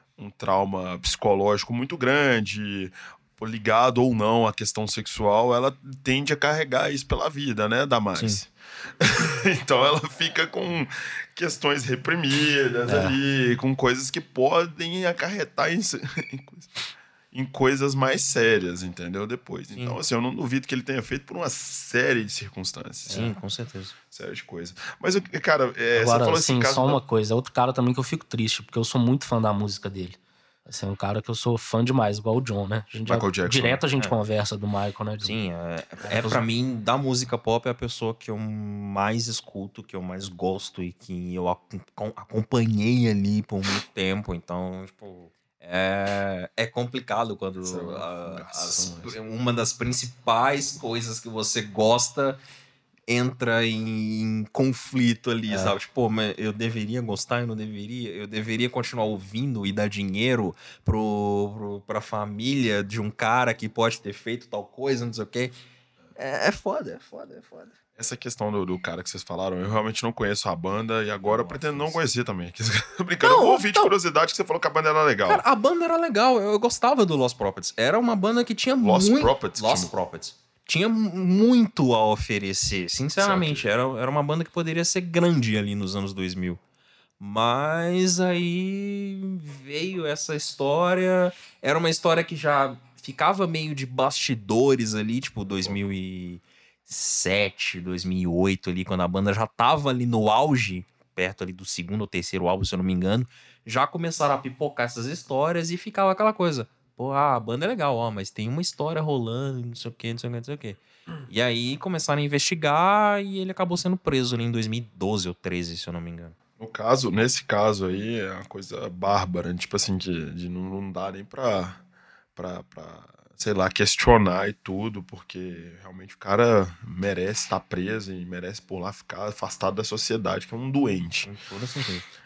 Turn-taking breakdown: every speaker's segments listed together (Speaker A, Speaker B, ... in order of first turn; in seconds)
Speaker A: 0.2-16.8, 17.3-23.3, 24.1-27.0, 33.0-33.8, 47.6-49.1, 68.0-75.4, 78.8-79.9, 83.2-83.7, 116.6-121.8, 122.4-131.3
Speaker B: 8.2-8.4, 12.9-13.2, 23.1-23.9, 35.2-52.4, 53.1-65.5, 66.2-67.7, 71.2-72.0, 73.2-73.9, 75.2-86.6, 87.2-116.3, 131.2-132.1
Speaker C: 25.9-35.4, 36.0-36.4